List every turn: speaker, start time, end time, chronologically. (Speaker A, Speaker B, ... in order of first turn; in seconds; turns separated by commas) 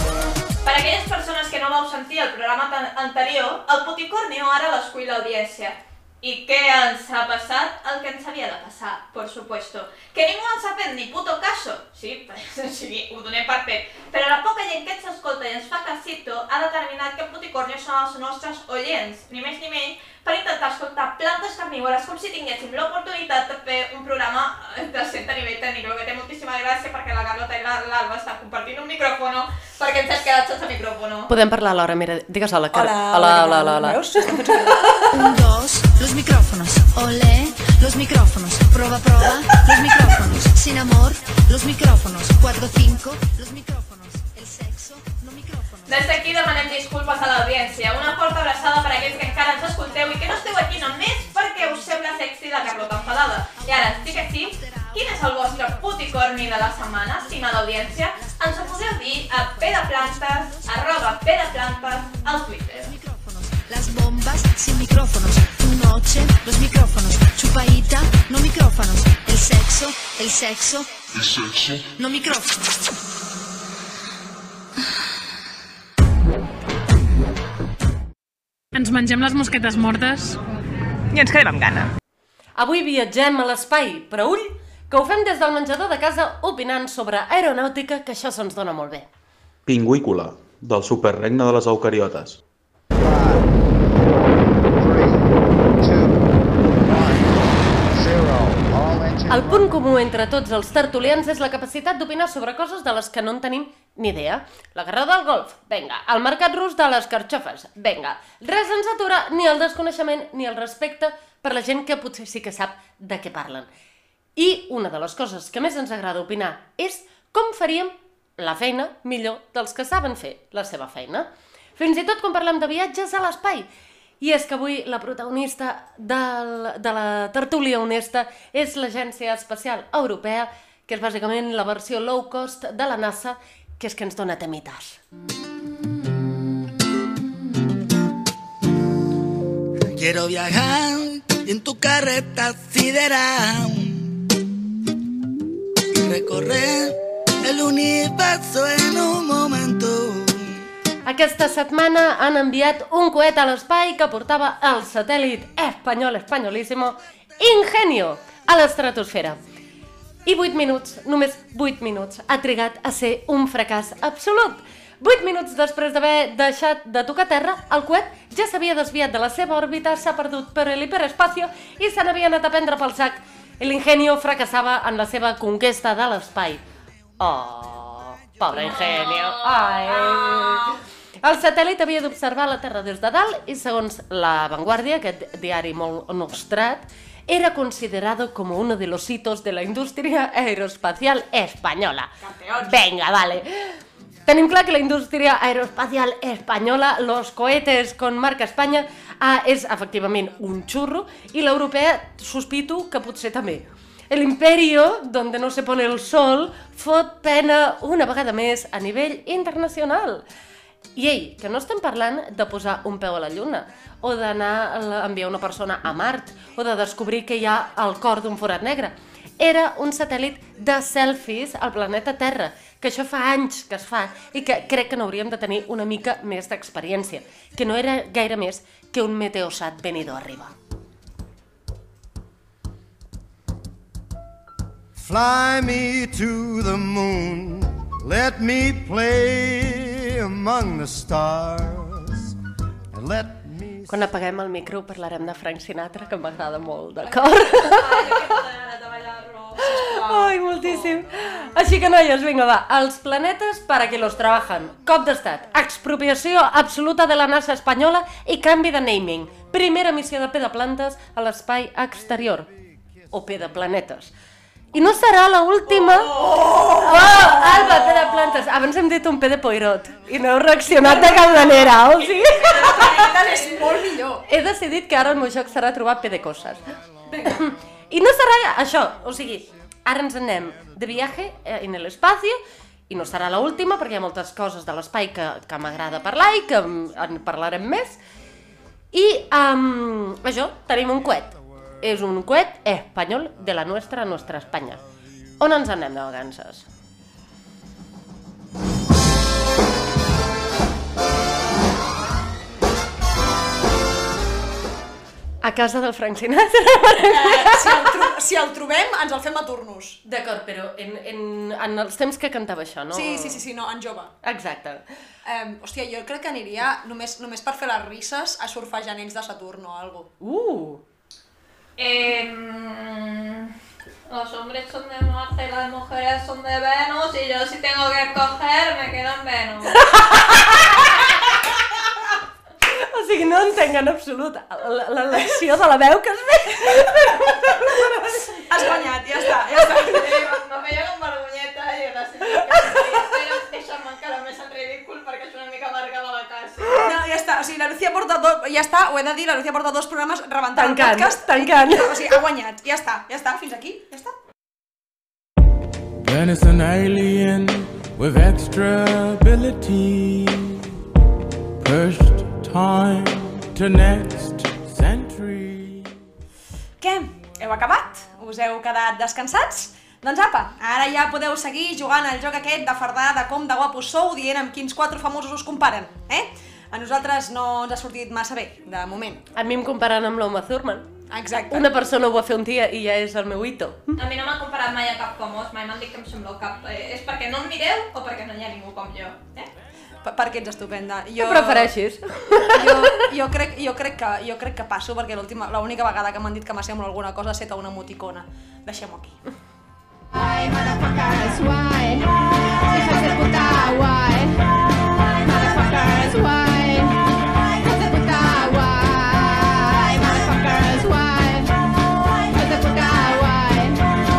Speaker A: 0.6-31.3, Speaker B: 31.3-34.3, Speaker C: 32.7-35.1, Speaker D: 35.2-44.8, Speaker A: 45.9-63.0, Speaker D: 63.7-70.8, Speaker D: 72.0-72.5, Speaker E: 78.7-80.4, Speaker E: 81.1-81.9, Speaker B: 82.6-89.1, Speaker F: 89.7-92.4, Speaker G: 93.0-93.5, Speaker G: 94.6-99.8, Speaker B: 99.3-113.7, Speaker B: 114.4-123.7, Speaker B: 124.2-135.0, Speaker H: 139.9-144.2, Speaker H: 145.9-150.6, Speaker B: 151.1-159.4, Speaker B: 160.3-176.6, Speaker B: 177.2-210.2, Speaker A: 178.5-180.4, Speaker C: 192.2-192.8, Speaker B: 211.0-230.5, Speaker G: 235.0-242.3, Speaker G: 242.9-244.0, Speaker B: 243.9-248.2, Speaker A: 247.1-249.7, Speaker C: 249.6-251.0, Speaker B: 249.8-262.5, Speaker B: 263.1-264.1, Speaker B: 264.7-273.1, Speaker C: 265.7-268.4, Speaker C: 270.9-274.2, Speaker A: 273.1-273.5, Speaker B: 274.3-282.4, Speaker B: 282.9-288.0, Speaker B: 288.9-294.8, Speaker B: 295.4-296.7, Speaker B: 305.4-307.9, Speaker C: 307.1-310.0, Speaker B: 310.1-313.4, Speaker C: 312.9-314.1, Speaker B: 314.2-314.9, Speaker C: 315.2-320.1, Speaker B: 320.2-320.8, Speaker A: 321.8-323.6, Speaker A: 324.1-329.8, Speaker B: 329.9-331.0, Speaker B: 332.7-338.0, Speaker C: 338.4-340.3, Speaker A: 339.6-346.8, Speaker C: 346.7-354.1, Speaker B: 350.6-352.1, Speaker I: 356.0-360.6, Speaker I: 361.6-365.9, Speaker C: 366.8-379.2, Speaker B: 379.4-380.9, Speaker C: 381.1-381.7, Speaker B: 381.5-383.9, Speaker A: 384.0-389.4, Speaker C: 390.0-391.7, Speaker B: 391.2-392.9, Speaker C: 392.4-399.2, Speaker J: 400.1-404.4, Speaker J: 405.2-407.0, Speaker J: 407.6-411.7, Speaker J: 412.3-413.8